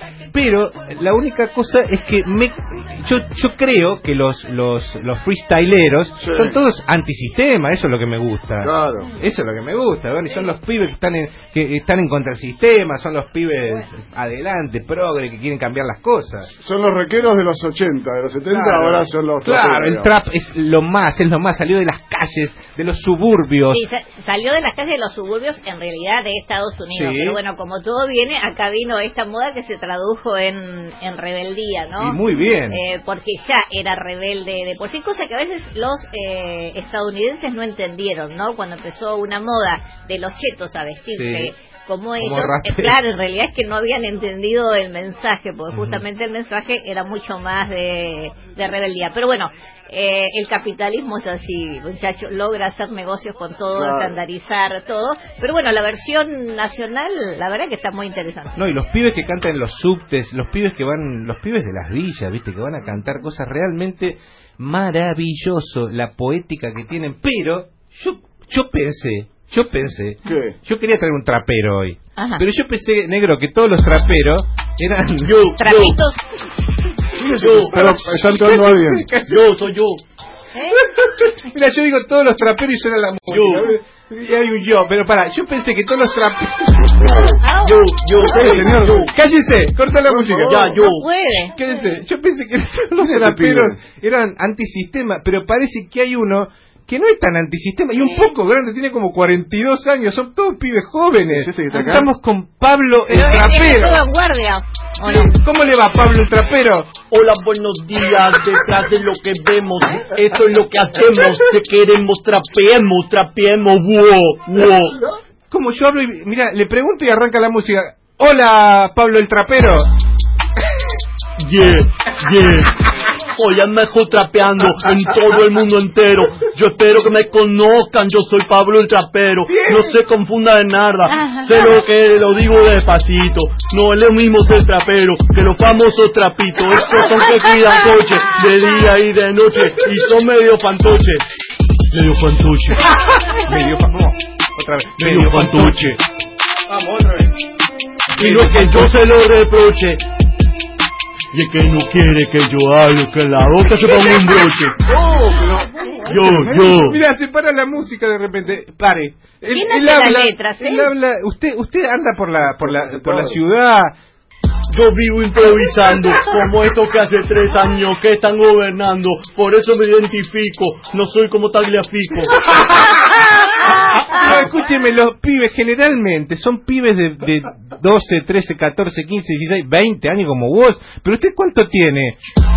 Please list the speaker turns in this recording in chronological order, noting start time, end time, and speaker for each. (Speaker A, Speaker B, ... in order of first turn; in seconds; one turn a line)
Speaker A: 0.3-16.5
Speaker B: 6.2-6.6
Speaker B: 8.6-9.1
Speaker B: 16.6-20.2
Speaker A: 18.5-23.8
Speaker C: 23.7-58.6
Speaker A: 26.9-27.4
Speaker A: 32.0-32.8
Speaker A: 41.1-41.5
Speaker A: 42.2-43.0
Speaker A: 45.7-46.0
Speaker B: 53.7-54.1
Speaker A: 58.6-75.4
Speaker B: 70.2-70.6
Speaker C: 72.2-72.4
Speaker D: 75.2-76.0
Speaker C: 75.6-76.2
Speaker A: 77.2-79.5
Speaker D: 77.2-77.8
Speaker B: 77.7-79.1
Speaker D: 79.3-80.0
Speaker C: 80.5-80.8
Speaker A: 80.7-87.3
Speaker D: 83.3-83.7
Speaker C: 87.3-87.8
Speaker D: 87.6-89.1
Speaker B: 88.2-89.1
Speaker A: 89.1-90.8
Speaker B: 90.0-90.8
Speaker D: 90.5-91.1
Speaker C: 90.8-91.5
Speaker A: 91.5-104.0
Speaker B: 93.0-93.8
Speaker B: 101.3-102.1
Speaker C: 103.1-105.4
Speaker A: 105.0-106.9
Speaker D: 107.1-115.0
Speaker A: 115.5-119.9
Speaker D: 121.4-141.2
Speaker A: 129.5-129.9
Speaker C: 131.2-131.5
Speaker D: 141.9-142.9
Speaker A: 143.3-146.0
Speaker D: 145.0-146.0
Speaker A: 146.7-147.3
Speaker D: 148.2-150.0
Speaker A: 148.2-148.9
Speaker D: 151.3-154.8
Speaker B: 154.8-156.7
Speaker D: 156.1-157.0
Speaker A: 156.6-163.9
Speaker C: 159.5-160.9
Speaker B: 162.6-163.4
Speaker D: 164.7-172.5
Speaker A: 172.6-172.9
Speaker A: 173.8-182.2